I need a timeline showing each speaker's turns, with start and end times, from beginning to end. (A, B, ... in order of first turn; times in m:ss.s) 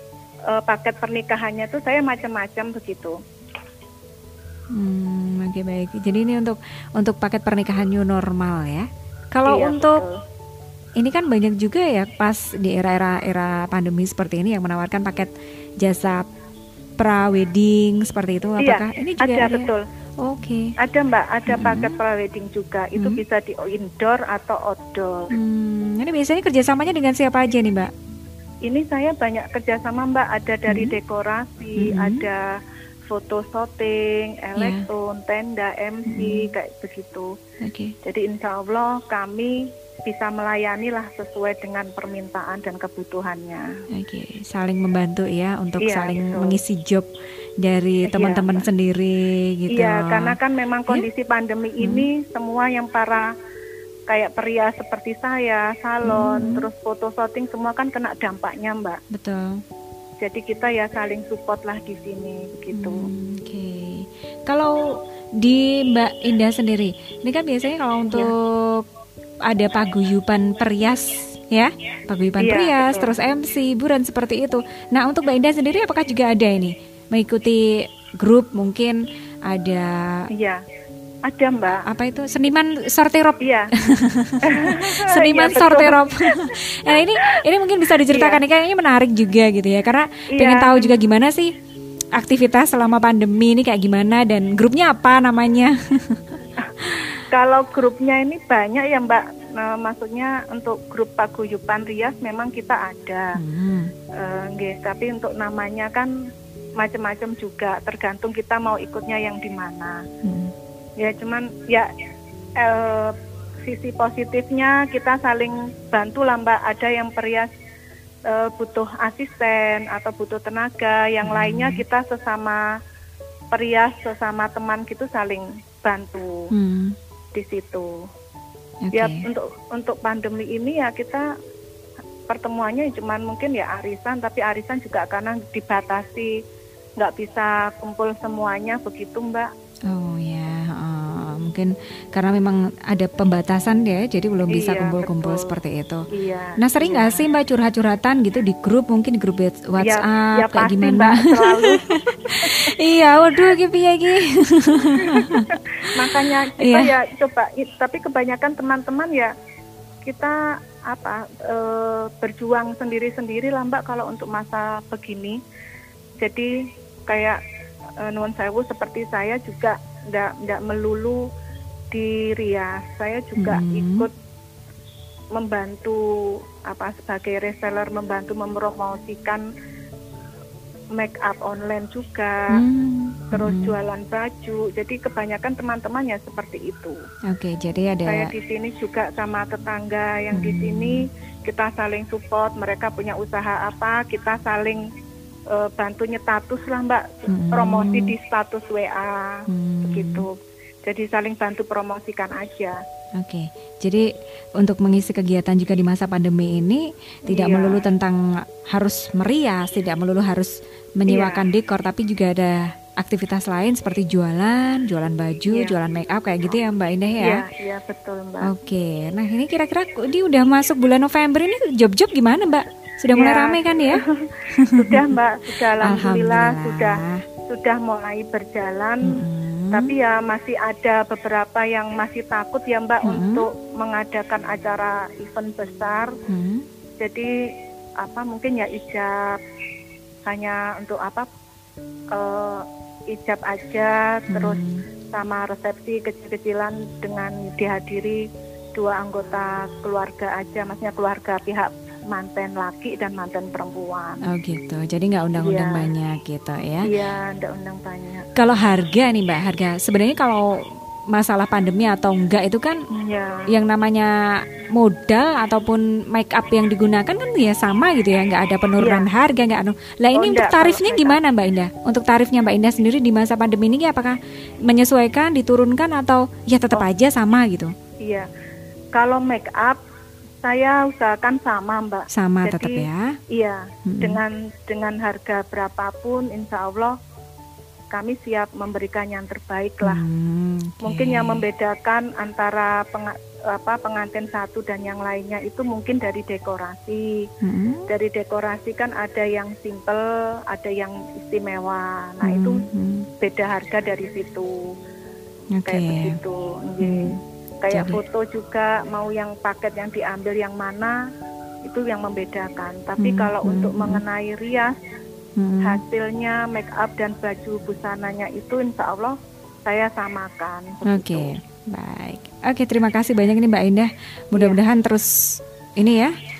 0:00.5-0:03.2 A
0:04.7-0:10.0 B
0:09.5-0:10.2 A
0:11.0-0:16.2 B
0:17.0-0:20.7 B
0:18.6-0:19.8 A
0:20.8-0:25.3 A
0:21.5-0:22.0 B
0:23.0-0:23.2 B
0:25.3-0:27.9 B
0:28.6-0:32.5 A
0:30.7-0:31.0 B
0:31.8-0:32.3 B
0:33.1-0:37.3 A
0:34.6-0:34.9 B
0:36.1-0:36.5 B
0:37.6-0:38.0 B
0:38.0-0:43.7 A
0:43.9-0:47.1 B
0:45.8-0:46.6 A
0:47.6-0:50.4 B
0:48.1-0:48.6 A
0:49.7-0:53.3 A
0:51.8-0:52.1 B
0:54.1-0:59.0 A
0:56.0-0:56.7 B
0:59.1-0:59.6 B
1:00.2-1:03.1 A
1:02.7-1:08.9 B
1:09.5-1:20.3 B
1:12.4-1:13.2 A
1:20.3-1:20.6 A
1:21.2-1:21.8 A
1:21.8-1:31.5 B
1:23.4-1:23.7 A
1:24.4-1:27.4 A
1:28.1-1:28.4 A
1:30.3-1:31.0 A
1:32.1-1:37.0 B
1:36.6-1:43.4 A
1:43.4-1:43.9 B
1:44.2-1:46.1 A
1:46.8-1:50.0 A
1:50.2-1:50.5 B
1:51.0-1:51.9 A
1:52.6-1:57.5 A
1:58.3-2:02.6 A
2:01.2-2:01.8 B
2:03.5-2:06.5 A
2:06.5-2:07.0 B
2:07.3-2:08.0 A
2:08.8-2:09.2 B
2:09.0-2:11.3 A
2:12.3-2:16.3 A
2:17.0-2:19.5 A
2:19.9-2:26.1 B
2:24.5-2:25.5 A
2:26.1-2:27.3 A
2:26.6-2:35.6 B
2:29.8-2:32.6 A
2:35.0-2:39.3 A
2:36.6-2:36.9 B
2:40.0-2:45.4 A
2:46.2-2:46.6 A
2:47.1-2:47.4 A
2:48.0-2:51.2 A
2:51.9-2:54.1 A
2:53.4-2:54.1 B
2:55.3-2:59.4 A
3:01.0-3:02.6 A
3:02.5-3:03.8 B
3:03.3-3:07.0 A
3:07.3-3:08.3 B
3:08.1-3:14.8 A
3:10.3-3:11.1 B
3:15.5-3:20.3 A
3:17.3-3:18.2 B
3:19.5-3:20.3 B
3:20.8-3:22.8 A
3:23.2-3:37.4 B
3:27.3-3:27.8 A
3:31.1-3:31.5 A
3:35.5-3:35.8 A
3:37.2-3:38.5 A
3:38.4-3:44.0 B
3:43.1-3:49.2 A
3:44.5-3:45.2 B
3:45.8-3:47.2 B
3:49.0-3:49.9 B
3:49.7-3:56.1 A
3:53.0-3:53.5 B
3:56.3-3:56.7 B
3:57.0-3:57.3 A
3:58.0-3:59.4 A
4:00.2-4:01.3 A
4:02.1-4:08.2 A
4:04.3-4:04.8 B
4:08.8-4:14.2 A
4:14.3-4:16.9 B
4:15.4-4:15.9 A
4:16.8-4:18.3 A
4:18.4-4:22.8 B
4:22.9-4:23.5 A
4:23.5-4:24.1 B
4:24.8-4:37.7 B
4:28.8-4:29.1 A
4:30.2-4:31.2 A
4:38.0-4:38.3 A
4:38.9-4:39.8 A
4:40.4-4:47.0 A
4:42.1-4:43.2 B
4:43.9-4:44.2 B
4:47.9-4:50.0 A
4:49.8-4:51.4 B
4:50.8-4:57.2 A
4:57.4-4:57.9 B
4:57.9-5:02.6 A
5:02.2-5:03.1 B
5:03.2-5:04.5 A
5:05.5-5:06.2 B
5:05.7-5:11.0 A
5:06.8-5:07.2 B
5:07.7-5:08.0 B
5:11.6-5:14.8 A
5:13.0-5:14.0 B
5:15.4-5:15.8 B
5:15.6-5:21.3 A
5:20.9-5:26.1 B